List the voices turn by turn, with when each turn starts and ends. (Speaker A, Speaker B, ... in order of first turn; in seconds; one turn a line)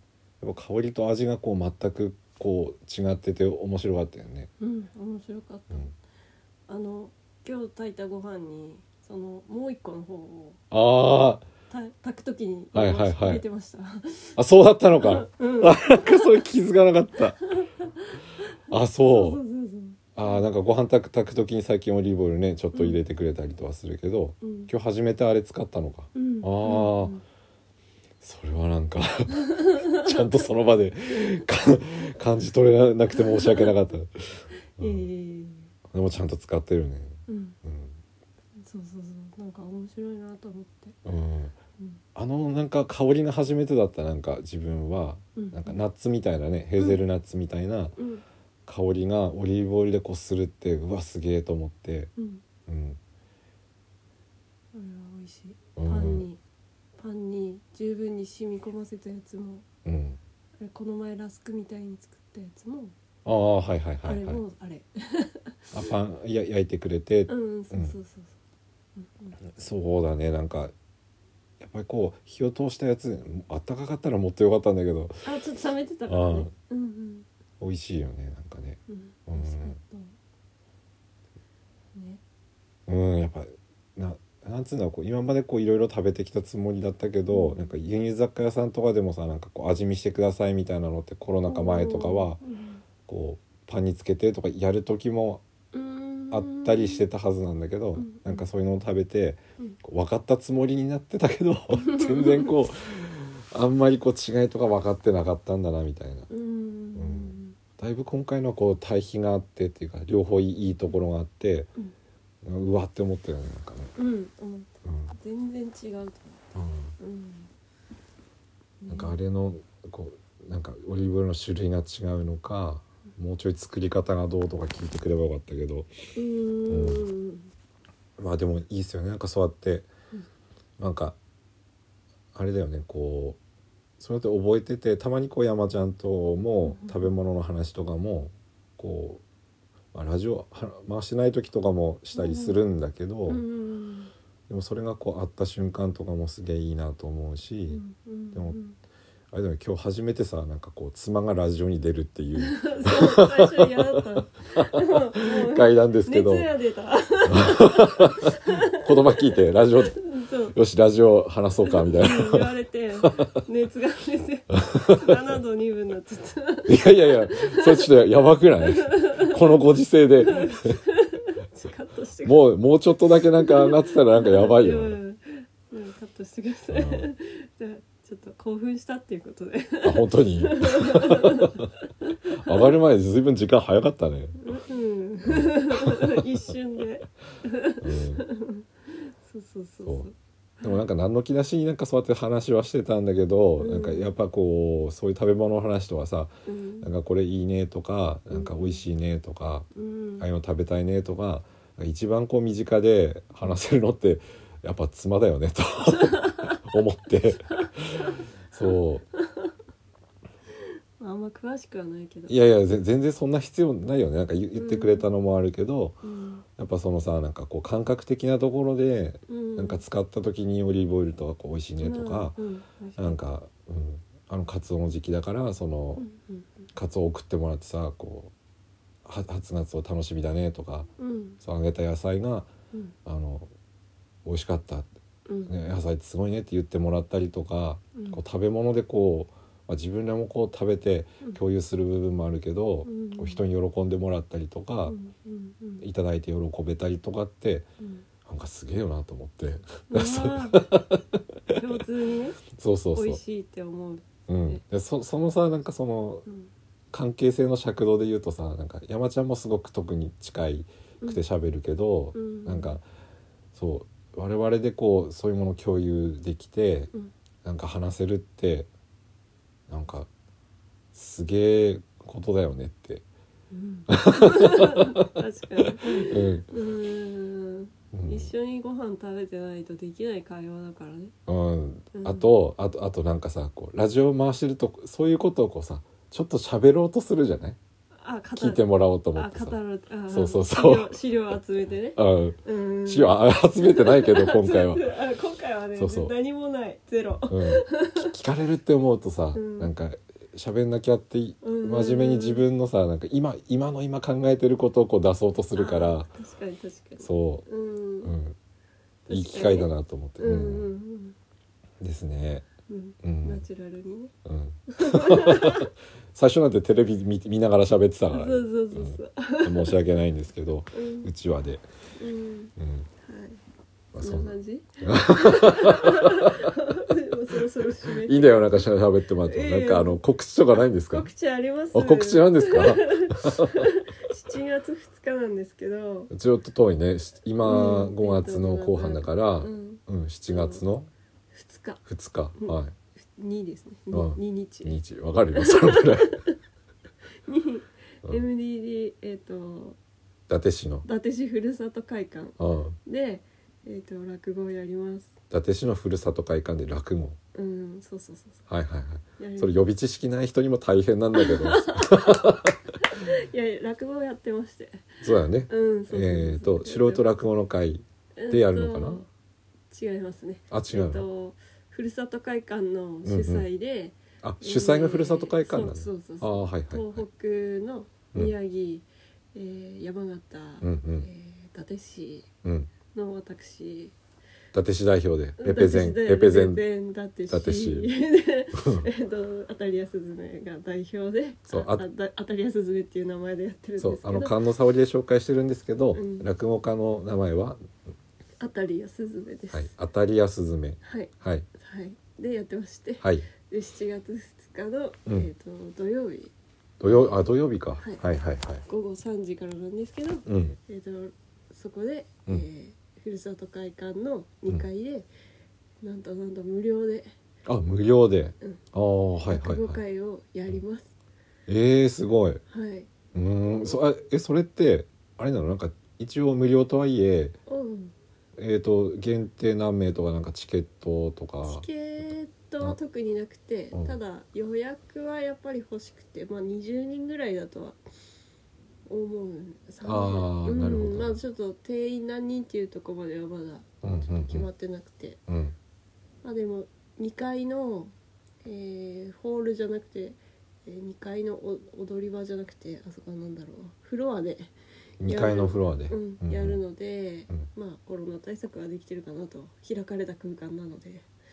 Speaker A: 0.4-4.5
Speaker B: 4.6-5.8
Speaker B: 6.7-10.6
Speaker A: 10.7-11.4
Speaker B: 11.7-14.4
Speaker A: 12.7-13.4
Speaker A: 14.3-17.4
Speaker B: 14.9-16.4
Speaker B: 17.4-20.4
Speaker A: 18.7-19.4
Speaker A: 20.1-27.1
Speaker B: 22.7-23.0
Speaker B: 24.4-24.7
Speaker B: 26.1-27.2
Speaker A: 28.2-35.1
Speaker B: 29.4-30.4
Speaker B: 33.1-33.7
Speaker B: 34.8-35.7
Speaker A: 35.9-38.0
Speaker B: 37.3-37.6
Speaker B: 38.6-41.0
Speaker A: 41.0-41.5
Speaker A: 42.1-48.0
Speaker B: 45.4-45.8
Speaker B: 48.0-48.2
Speaker A: 48.7-52.1
Speaker B: 52.2-52.4
Speaker A: 52.7-53.0
Speaker B: 54.7-56.4
Speaker A: 55.8-56.2
Speaker B: 57.0-59.6
Speaker A: 59.8-60.2
Speaker B: 60.6-62.9
Speaker A: 63.2-64.4
Speaker B: 64.0-65.7
Speaker A: 65.7-67.9
Speaker B: 67.3-68.4
Speaker B: 69.0-69.4
Speaker A: 69.5-70.7
Speaker A: 71.6-75.2
Speaker B: 75.2-77.2
Speaker A: 76.1-76.5
Speaker A: 77.6-79.8
Speaker B: 78.9-80.1
Speaker B: 81.9-82.2
Speaker A: 82.9-92.4
Speaker B: 87.3-87.7
Speaker B: 91.5-92.8
Speaker A: 93.1-95.4
Speaker B: 95.7-97.0
Speaker A: 96.3-106.3
Speaker B: 98.0-98.5
Speaker B: 101.8-102.5
Speaker B: 106.3-107.5
Speaker A: 107.0-111.7
Speaker A: 112.4-113.9
Speaker B: 114.0-116.5
Speaker A: 114.8-115.1
Speaker A: 116.5-116.9
Speaker B: 117.0-117.5
Speaker B: 118.8-119.2
Speaker A: 118.9-125.9
Speaker B: 126.1-127.5
Speaker A: 126.7-127.1
Speaker A: 128.2-129.9
Speaker A: 130.8-131.2
Speaker A: 132.3-133.4
Speaker A: 134.0-139.2
Speaker B: 136.6-137.1
Speaker A: 139.9-143.4
Speaker B: 142.1-142.6
Speaker B: 143.3-144.1
Speaker A: 144.5-147.8
Speaker B: 147.7-148.8
Speaker A: 149.3-156.5
Speaker B: 152.3-160.6
Speaker A: 157.3-160.0
Speaker A: 160.5-162.5
Speaker B: 161.6-167.9
Speaker A: 163.0-163.4
Speaker A: 164.6-165.4
Speaker A: 166.7-170.8
Speaker B: 168.6-169.6
Speaker B: 170.2-172.4
Speaker A: 172.2-175.0
Speaker B: 173.4-182.8
Speaker A: 176.7-177.1
Speaker A: 179.8-181.7
Speaker A: 182.3-184.5
Speaker B: 184.4-190.8
Speaker A: 185.2-186.2
Speaker A: 187.8-188.2
Speaker A: 190.6-199.7
Speaker B: 193.6-194.1
Speaker B: 196.4-196.9
Speaker B: 198.3-198.8
Speaker B: 199.7-200.2
Speaker A: 200.2-209.1
Speaker B: 205.9-206.6
Speaker B: 207.6-208.2
Speaker B: 209.2-209.5
Speaker B: 211.0-212.5
Speaker A: 212.3-216.0
Speaker B: 214.6-215.1
Speaker B: 216.0-216.4
Speaker A: 216.6-222.4
Speaker B: 219.3-219.8
Speaker B: 221.8-223.2
Speaker A: 223.0-226.0
Speaker B: 226.0-226.5
Speaker A: 226.7-228.3
Speaker A: 229.0-230.9
Speaker B: 231.0-231.4
Speaker A: 231.4-232.5
Speaker A: 233.0-233.5
Speaker A: 234.2-234.9
Speaker B: 235.3-235.5
Speaker A: 235.5-244.9
Speaker B: 237.9-238.2
Speaker B: 242.8-243.4
Speaker B: 244.9-245.8
Speaker A: 245.8-247.7
Speaker B: 247.8-248.1
Speaker A: 248.2-251.8
Speaker B: 249.9-250.7
Speaker B: 251.5-252.4
Speaker A: 252.5-253.2
Speaker B: 252.9-254.6
Speaker A: 254.3-256.2
Speaker A: 256.9-262.8
Speaker B: 262.1-262.7
Speaker A: 263.5-266.9
Speaker A: 267.4-268.7
Speaker A: 269.7-270.1
Speaker A: 270.9-273.0
Speaker B: 273.5-281.1
Speaker A: 273.9-275.0
Speaker A: 275.7-276.5
Speaker A: 277.9-278.3
Speaker A: 281.3-287.6
Speaker B: 281.9-282.3
Speaker B: 288.0-298.1
Speaker A: 288.4-289.6
Speaker A: 290.1-291.0
Speaker A: 291.9-294.9
Speaker A: 295.8-296.1
Speaker A: 297.3-306.1
Speaker B: 299.3-299.7
Speaker B: 301.4-302.5
Speaker B: 305.5-308.1
Speaker A: 307.0-307.4
Speaker A: 308.0-308.4
Speaker B: 309.1-311.1
Speaker A: 309.1-310.7
Speaker A: 311.8-312.4
Speaker B: 312.6-314.1
Speaker A: 313.0-313.4
Speaker A: 314.2-321.6
Speaker B: 314.7-315.7
Speaker B: 318.1-319.8
Speaker B: 320.7-321.1
Speaker B: 322.0-323.4
Speaker A: 322.6-322.9
Speaker A: 323.9-326.9
Speaker B: 324.0-328.7
Speaker A: 327.8-331.1
Speaker B: 329.2-330.0
Speaker B: 330.5-336.1
Speaker A: 331.7-333.7
Speaker A: 336.1-340.9
Speaker B: 337.4-340.6
Speaker B: 341.3-341.8
Speaker A: 341.9-342.7
Speaker B: 342.4-344.8
Speaker A: 343.9-346.2
Speaker B: 345.3-346.4
Speaker B: 347.2-349.8
Speaker A: 350.3-350.9
Speaker B: 350.8-355.1
Speaker A: 352.4-352.8
Speaker A: 355.3-357.2
Speaker B: 357.3-358.4
Speaker A: 358.5-362.6
Speaker B: 359.2-359.6
Speaker B: 361.1-367.1
Speaker A: 365.0-369.0
Speaker B: 368.2-369.1
Speaker B: 369.7-382.3
Speaker A: 370.5-371.1
Speaker A: 373.0-373.5
Speaker A: 374.2-377.0
Speaker A: 380.6-381.1
Speaker A: 382.4-382.7
Speaker B: 382.9-383.9
Speaker A: 384.5-386.6
Speaker B: 385.4-394.4
Speaker A: 387.3-387.9
Speaker A: 388.6-388.9
Speaker A: 391.5-391.8
Speaker A: 393.8-397.6
Speaker B: 395.9-396.2
Speaker B: 398.4-399.7
Speaker A: 399.5-401.4
Speaker B: 400.8-406.3
Speaker A: 403.0-403.3
Speaker A: 406.8-408.6
Speaker B: 406.9-407.1
Speaker B: 408.6-415.1
Speaker A: 410.2-410.6
Speaker B: 415.8-417.1
Speaker A: 417.4-419.8
Speaker B: 419.3-420.9
Speaker A: 421.5-422.4
Speaker B: 422.5-422.9
Speaker A: 423.1-427.4
Speaker B: 427.5-427.9
Speaker A: 428.4-431.6
Speaker B: 431.4-437.8
Speaker B: 438.9-445.2
Speaker A: 439.8-441.2
Speaker A: 443.8-444.5
Speaker A: 445.3-445.5
Speaker B: 446.2-447.9
Speaker B: 448.4-461.1
Speaker A: 455.0-456.6